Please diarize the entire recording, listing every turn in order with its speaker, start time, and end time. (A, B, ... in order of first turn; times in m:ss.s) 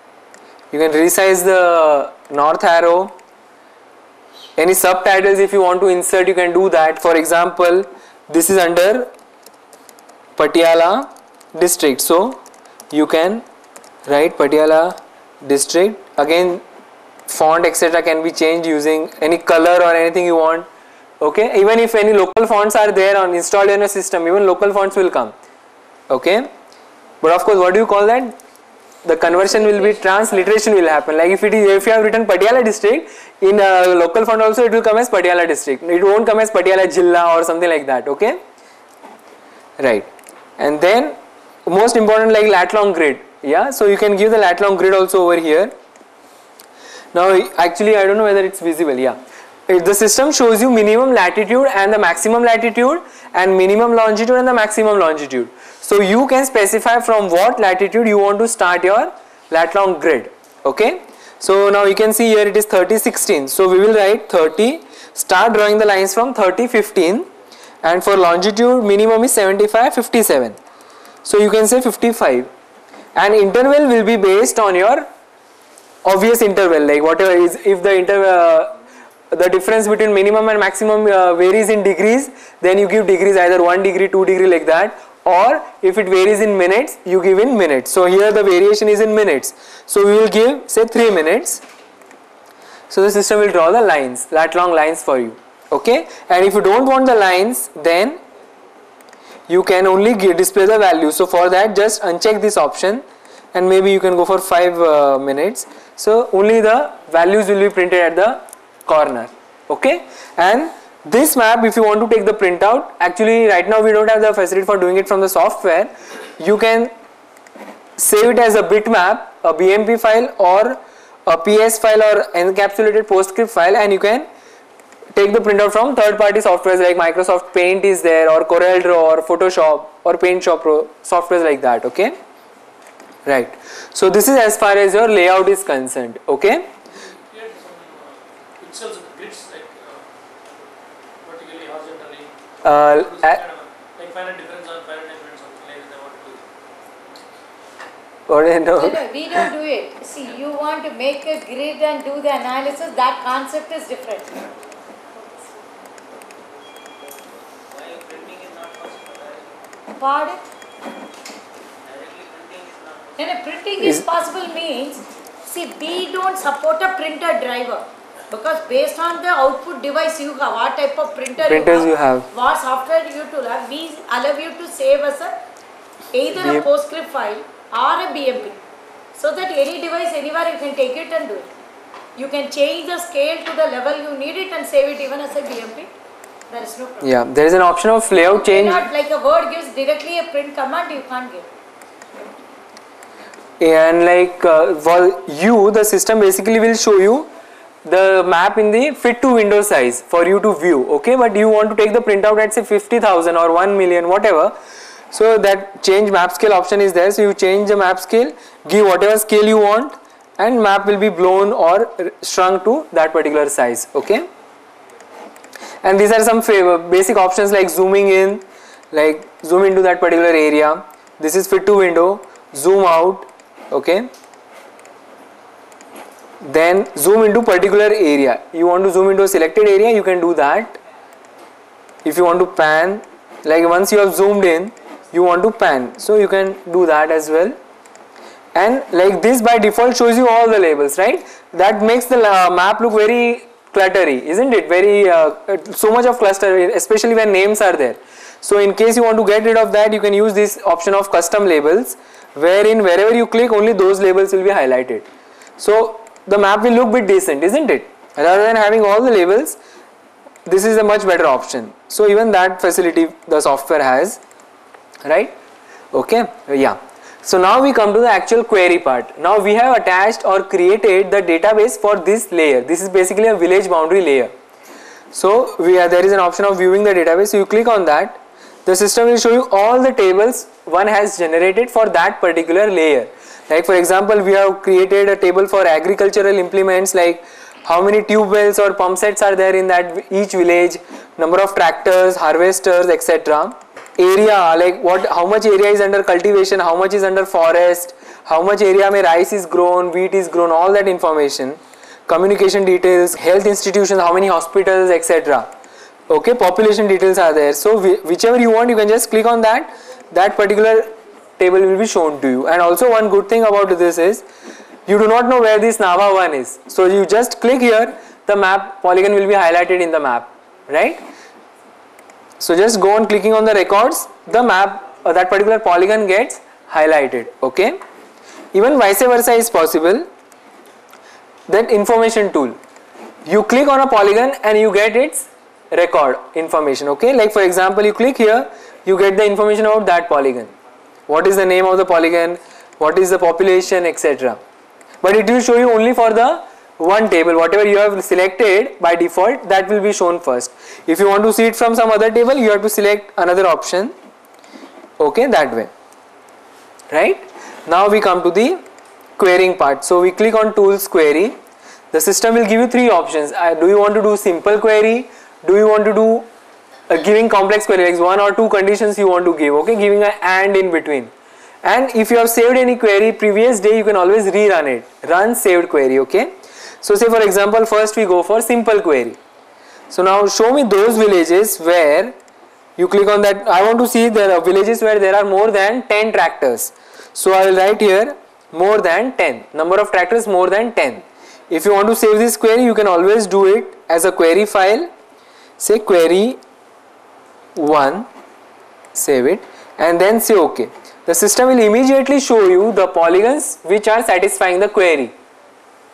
0:00.7-0:03.1 A
0:04.6-0:09.1 A
0:10.4-0:12.4 A
0:12.9-0:13.4 A
0:14.1-0:16.6 A
0:17.3-0:20.7 A
0:21.2-0:25.4 A
0:26.1-0:26.5 A
0:27.2-0:28.4 A
0:29.0-0:38.4 A
0:39.8-0:45.7 A
0:47.1-1:07.3 A
1:07.8-1:10.6 A
1:11.2-1:12.5 A
1:13.2-1:15.1 A
1:16.0-1:18.8 A
1:19.3-1:31.6 A
1:32.9-1:38.2 A
1:39.5-1:56.9 A
1:58.0-2:04.3 A
2:05.1-2:12.2 A
2:13.3-2:16.7 A
2:16.9-2:26.4 B
2:22.6-2:23.4 A
2:28.3-2:29.5 A
2:28.8-2:34.4 C
2:37.6-2:39.7 D
2:40.0-2:40.4 C
2:41.8-2:43.5 D
2:43.2-2:55.4 C
2:51.4-2:52.3 A
2:56.1-2:58.6 C
2:56.4-2:56.7 A
2:59.2-3:01.5 C
3:02.2-3:05.9 C
3:06.5-3:07.1 C
3:07.0-3:08.9 A
3:08.3-3:11.5 C
3:13.6-3:17.3 A
3:17.8-3:24.6 A
3:25.1-3:34.3 A
3:35.8-3:44.1 A
3:46.4-3:50.8 A
3:52.0-3:57.6 A
3:58.6-4:15.1 A
4:15.6-4:19.6 A
4:20.4-4:24.2 A
4:25.0-4:25.4 A
4:25.9-4:34.3 A
4:35.1-5:05.5 A
5:06.1-5:14.2 A
5:14.9-5:21.0 A
5:22.4-5:27.8 A
5:28.5-5:30.1 A
5:31.5-5:32.6 A
5:33.2-5:40.5 A
5:41.1-5:44.4 A
5:45.0-5:53.9 A
5:55.0-5:55.7 A
5:56.9-5:58.6 A
5:59.2-6:01.4 A
6:01.9-6:06.3 A
6:06.9-6:11.1 A
6:11.6-6:19.2 A
6:19.9-6:22.2 A
6:22.8-6:34.9 A
6:35.6-6:36.4 A
6:37.6-6:38.1 A
6:38.9-6:45.2 A